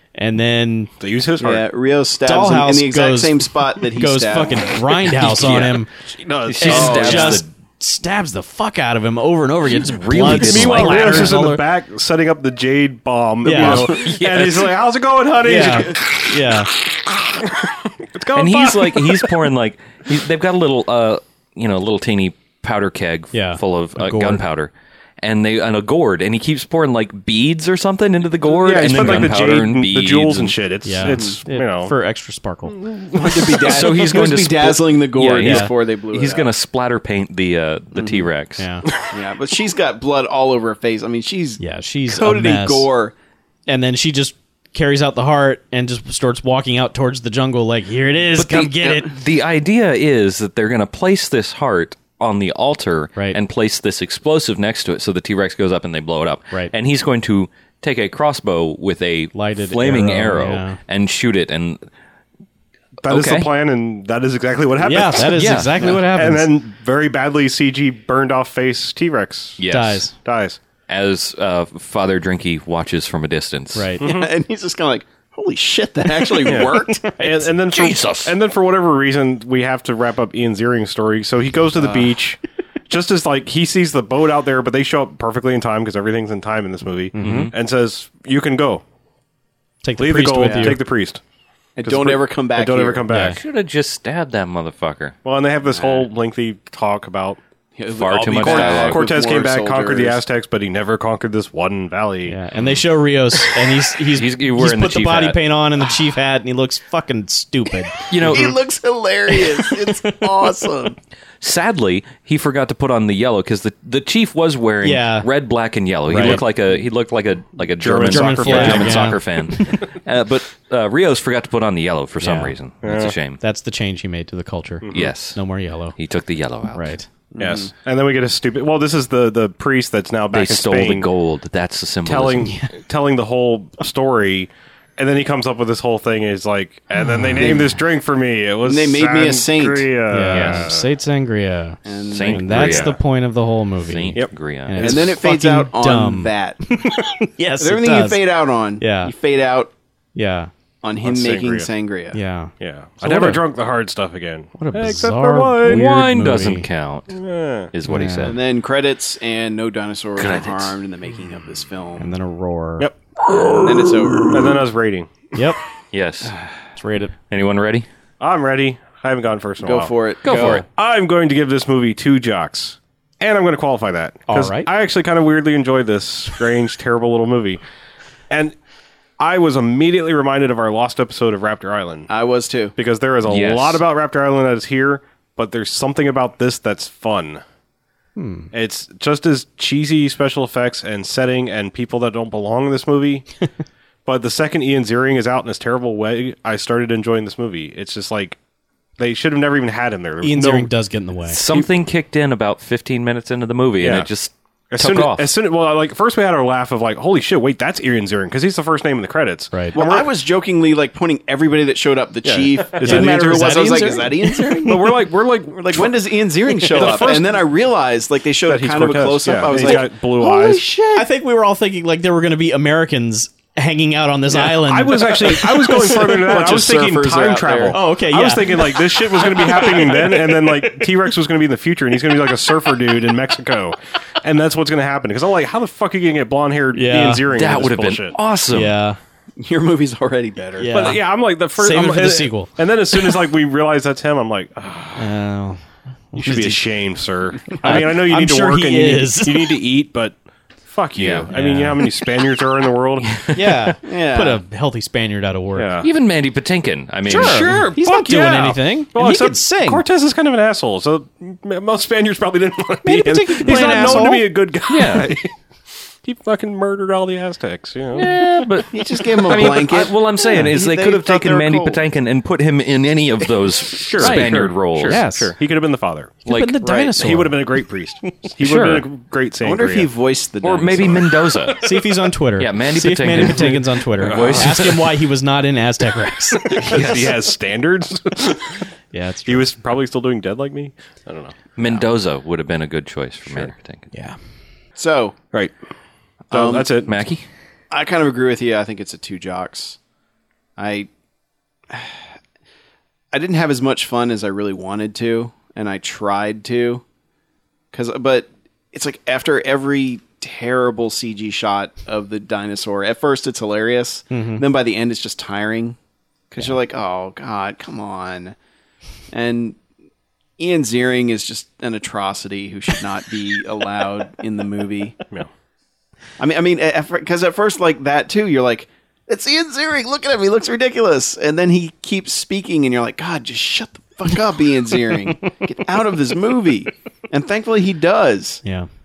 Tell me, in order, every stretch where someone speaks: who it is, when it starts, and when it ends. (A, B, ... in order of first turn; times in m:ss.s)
0:00.1-0:00.9 A
0:01.0-0:01.6 B
0:01.4-0:04.7 C
0:02.2-0:05.9 A
0:05.2-0:05.8 D
0:06.0-0:07.3 B
0:06.4-0:07.5 D
0:06.6-0:11.6 A
0:06.7-0:07.4 C
0:09.7-0:11.4 D
0:10.3-0:19.5 B
0:13.4-0:13.9 A
0:13.6-0:14.8 D
0:15.4-0:16.7 A
0:18.3-0:30.5 D
0:23.3-0:24.4 A
0:28.4-0:31.9 B
0:28.9-0:29.3 A
0:30.8-0:32.8 A
0:31.1-0:31.4 C
0:32.7-0:33.9 B
0:33.1-0:36.5 C
0:33.4-0:38.6 D
0:35.4-0:35.7 A
0:37.9-0:38.3 C
0:38.6-0:38.8 A
0:39.1-0:43.1 C
0:41.6-0:42.9 A
0:43.7-0:49.1 A
0:48.4-1:01.8 D
0:59.3-1:00.8 A
1:03.0-1:09.6 B
1:03.1-1:03.5 D
1:04.8-1:06.5 A
1:05.3-1:05.8 D
1:09.6-1:10.1 D
1:09.7-1:10.1 A
1:10.2-1:10.6 B
1:10.9-1:13.9 D
1:13.7-1:14.0 A
1:14.0-1:14.3 B
1:14.0-1:17.2 C
1:16.4-1:28.8 B
1:17.7-1:18.4 D
1:21.8-1:22.1 C
1:27.1-1:27.5 A
1:27.2-1:27.5 D
1:29.8-1:30.8 A
1:30.0-1:31.2 B
1:30.4-1:30.7 C
1:31.8-1:33.0 C
1:31.8-1:33.4 B
1:33.1-1:33.4 A
1:33.3-1:35.2 D
1:35.2-1:37.4 B
1:35.7-1:36.0 C
1:37.8-1:40.2 C
1:37.9-1:39.0 D
1:38.3-1:42.4 B
1:42.3-1:48.0 A
1:42.5-1:42.8 D
1:44.1-1:45.4 D
1:48.1-1:48.6 D
1:48.2-1:51.0 C
1:49.3-1:50.1 A
1:51.4-2:03.4 D
1:54.8-1:55.3 A
1:56.1-1:56.4 A
1:56.1-1:56.5 B
1:57.8-1:59.2 B
1:57.9-1:59.8 A
2:02.2-2:02.5 A
2:02.8-2:03.2 B
2:03.4-2:06.0 A
2:04.8-2:05.1 B
2:04.9-2:05.4 D
2:06.0-2:06.9 D
2:06.7-2:07.0 A
2:07.3-2:07.7 C
2:07.4-2:11.1 B
2:10.3-2:12.5 D
2:12.0-2:20.9 B
2:12.4-2:12.7 A
2:17.0-2:17.6 A
2:17.4-2:17.7 C
2:18.6-2:19.9 C
2:20.1-2:28.2 A
2:20.3-2:20.7 D
2:21.8-2:22.7 C
2:22.1-2:23.0 D
2:22.5-2:22.9 B
2:23.8-2:25.0 D
2:24.8-2:26.6 C
2:27.6-2:29.7 C
2:28.8-2:29.1 A
2:30.1-2:30.5 A
2:30.8-2:32.2 C
2:31.0-2:31.7 B
2:32.1-2:33.4 A
2:32.6-2:35.8 B
2:34.6-2:36.6 A
2:35.6-2:37.2 D
2:37.1-2:37.7 B
2:37.7-2:38.4 D
2:37.8-2:38.3 A
2:38.2-2:42.1 C
2:40.2-2:40.8 D
2:42.0-2:42.9 A
2:42.8-2:45.3 B
2:43.6-2:44.5 C
2:45.3-2:45.6 A
2:45.9-2:46.4 D
2:46.8-2:47.1 A
2:47.3-2:47.8 D
2:48.2-2:57.6 B
2:49.6-2:50.6 C
2:50.2-2:50.6 D
2:54.3-2:54.7 A
2:58.3-2:58.5 B
2:59.2-3:02.1 B
3:02.1-3:02.7 C
3:02.8-3:07.4 B
3:03.2-3:03.8 D
3:08.2-3:08.5 A
3:08.5-3:13.3 B
3:14.0-3:18.4 B
3:19.0-3:20.7 B
3:20.2-3:21.4 A
3:21.3-3:25.3 D
3:23.8-3:24.1 B
3:24.7-3:30.1 B
3:29.7-3:41.1 C
3:32.2-3:33.8 B
3:32.8-3:34.8 A
3:34.6-3:36.0 B
3:36.6-3:37.4 B
3:38.4-3:40.6 B
3:39.5-3:39.8 A
3:40.9-3:46.2 A
3:44.3-3:58.2 B
3:45.9-3:47.8 C
3:47.7-3:50.6 A
3:56.7-3:57.2 A
3:57.3-3:58.8 D
3:58.5-3:59.0 A
3:59.4-4:00.8 C
4:00.6-4:02.5 A
4:00.7-4:05.2 B
4:05.0-4:05.6 A
4:06.1-4:06.6 A
4:06.1-4:13.4 B
4:07.6-4:09.5 A
4:11.0-4:11.3 D
4:11.3-4:11.8 A
4:13.1-4:13.4 D
4:13.3-4:15.7 A
4:13.8-4:14.4 C
4:15.5-4:15.9 B
4:15.8-4:17.7 D
4:17.0-4:25.3 B
4:17.1-4:19.8 A
4:22.8-4:24.3 A
4:24.7-4:25.1 D
4:26.0-4:28.6 B
4:27.9-4:35.0 D
4:28.7-4:31.8 C
4:29.3-4:29.6 B
4:33.7-4:39.9 B
4:34.0-4:35.3 A
4:36.2-4:37.4 A
4:36.3-4:36.6 D
4:38.4-4:38.8 D
4:39.4-4:41.2 C
4:40.4-4:41.6 D
4:41.4-4:41.8 B
4:41.6-4:46.9 A
4:42.4-4:44.8 D
4:43.3-4:44.9 B
4:46.4-4:48.6 B
4:46.6-4:47.1 D
4:48.9-4:49.5 A
4:49.2-4:51.8 B
4:51.6-4:53.9 D
4:53.3-4:53.5 B
4:54.8-4:55.2 C
4:56.3-4:56.9 B
4:56.3-4:56.7 C
4:56.8-4:57.2 D
4:57.7-4:59.8 C
5:00.6-5:00.9 C
5:01.7-5:02.0 C
5:03.1-5:06.8 C
5:07.7-5:15.8 C
5:14.1-5:14.4 A
5:16.3-5:18.4 C
5:19.1-5:19.6 C
5:20.4-5:25.0 C
5:26.2-5:38.4 C